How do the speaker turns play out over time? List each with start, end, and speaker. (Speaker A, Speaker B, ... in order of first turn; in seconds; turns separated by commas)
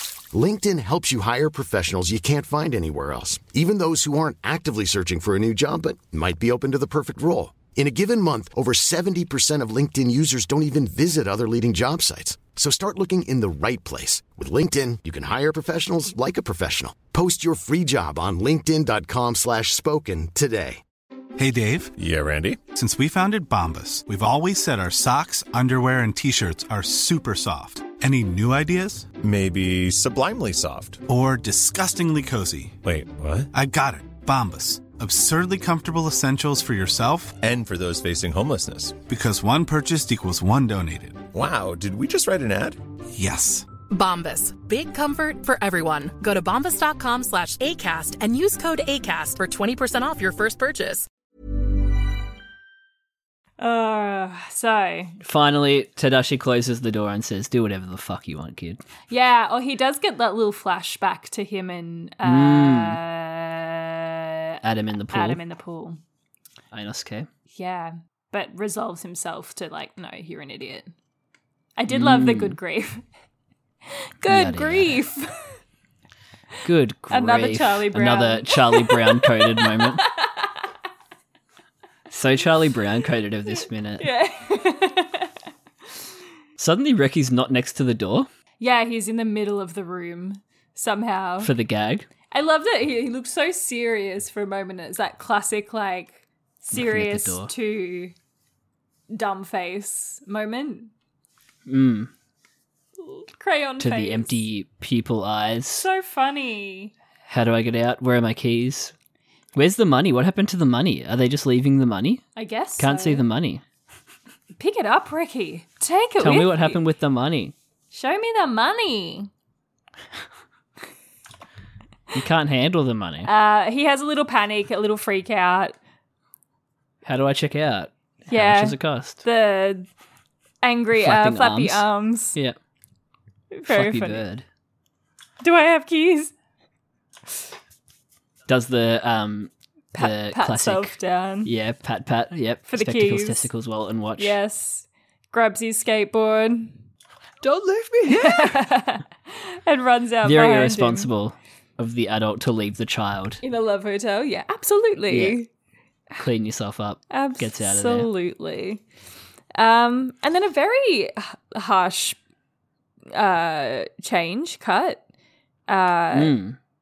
Speaker A: 0.3-20.8, Speaker B: 21.4-21.9, Speaker C: 22.0-22.7, Speaker B: 22.6-29.1, Speaker C: 29.2-31.0, Speaker B: 31.1-32.8, Speaker C: 32.8-33.5, Speaker B: 33.5-37.4, Speaker C: 37.4-39.1, Speaker B: 39.0-41.2, Speaker C: 41.3-42.8, Speaker B: 43.1-43.7, Speaker D: 43.9-51.1, Speaker E: 53.6-55.1, Speaker F: 55.2-58.8, Speaker E: 59.1-64.6, Speaker F: 62.2-63.0, Speaker F: 64.6-65.4, Speaker E: 65.1-66.0, Speaker F: 66.7-67.3, Speaker E: 67.5-70.9, Speaker E: 71.8-73.0, Speaker F: 71.9-72.5, Speaker E: 74.2-75.5, Speaker F: 74.3-75.0, Speaker F: 76.6-80.1, Speaker E: 77.1-80.5, Speaker F: 82.1-84.1, Speaker E: 84.0-85.3, Speaker F: 86.6-88.3, Speaker E: 88.6-91.5, Speaker F: 91.4-92.1, Speaker E: 92.3-98.1, Speaker F: 96.7-97.5, Speaker E: 99.1-100.9, Speaker F: 101.7-102.1, Speaker E: 103.0-104.4, Speaker F: 103.8-105.9, Speaker E: 105.8-106.9, Speaker F: 107.3-108.9, Speaker F: 109.5-113.6, Speaker E: 112.3-113.2, Speaker E: 114.6-116.8, Speaker F: 116.2-117.5, Speaker E: 117.9-119.3, Speaker F: 122.1-123.3, Speaker E: 123.2-125.8, Speaker F: 127.0-129.2, Speaker E: 128.3-129.9, Speaker E: 130.6-132.3, Speaker F: 131.0-132.5, Speaker E: 133.5-134.2, Speaker F: 133.7-134.4, Speaker E: 135.4-136.3, Speaker F: 138.5-144.3, Speaker E: 139.9-141.5, Speaker E: 142.7-143.5, Speaker E: 144.2-146.8, Speaker F: 147.4-148.6, Speaker E: 148.1-151.1, Speaker F: 150.2-153.4, Speaker E: 153.4-155.5, Speaker F: 155.1-155.4, Speaker F: 156.2-158.1, Speaker E: 157.1-158.8, Speaker E: 159.6-162.2, Speaker E: 163.1-165.0, Speaker E: 165.7-166.3, Speaker F: 166.1-166.6